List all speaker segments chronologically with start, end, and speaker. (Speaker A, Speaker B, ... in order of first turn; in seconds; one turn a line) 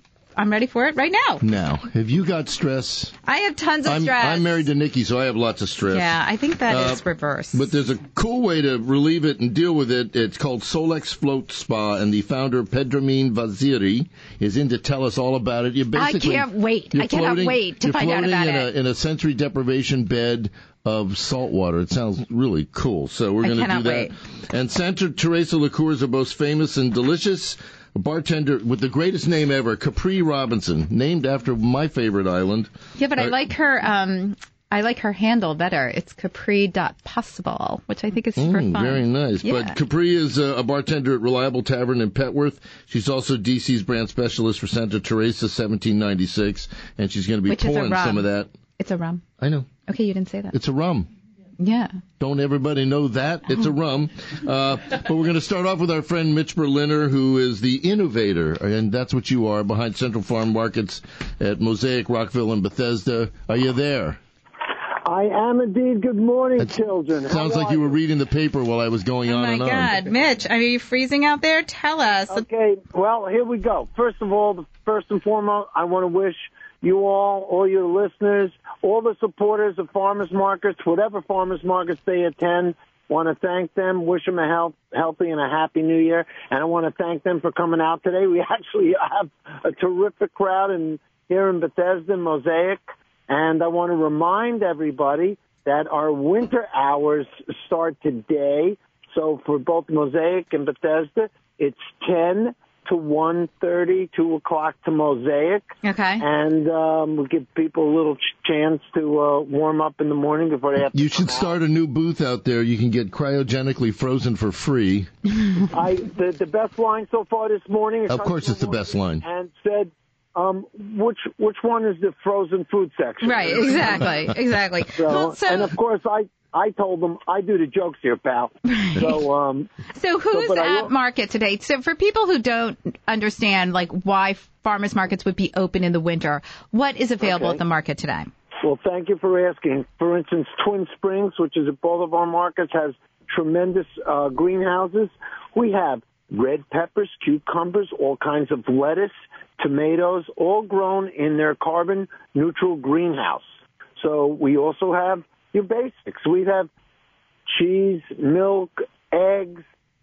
Speaker A: 0.4-1.4
Speaker B: 1.4-3.1
Speaker A: 3.3-4.6
Speaker B: 3.9-33.3
Speaker A: 5.9-7.6
Speaker A: 15.9-18.7
Speaker A: 23.4-24.1
Speaker A: 33.0-39.8
Speaker B: 38.4-48.5
Speaker A: 47.5-48.3
Speaker A: 48.8-49.2
Speaker B: 49.4-49.8
Speaker A: 49.9-50.5
Speaker B: 50.5-51.1
Speaker A: 51.6-52.0
Speaker B: 52.2-64.2
Speaker C: 65.0-68.0
Speaker B: 66.6-70.0
Speaker A: 69.3-72.4
Speaker C: 72.3-105.7
Speaker A: 105.8-106.2
Speaker C: 106.2-111.6
Speaker B: 110.9-115.1
Speaker C: 115.7-124.3
Speaker B: 118.1-119.2
Speaker A: 123.2-125.8
Speaker C: 125.0-129.7
Speaker A: 128.8-129.2
Speaker A: 129.9-138.3
Speaker C: 130.3-130.9
Speaker C: 137.2-137.6
Speaker C: 138.6-153.4
Speaker C: 154.0-156.7
Speaker C: 157.5-159.6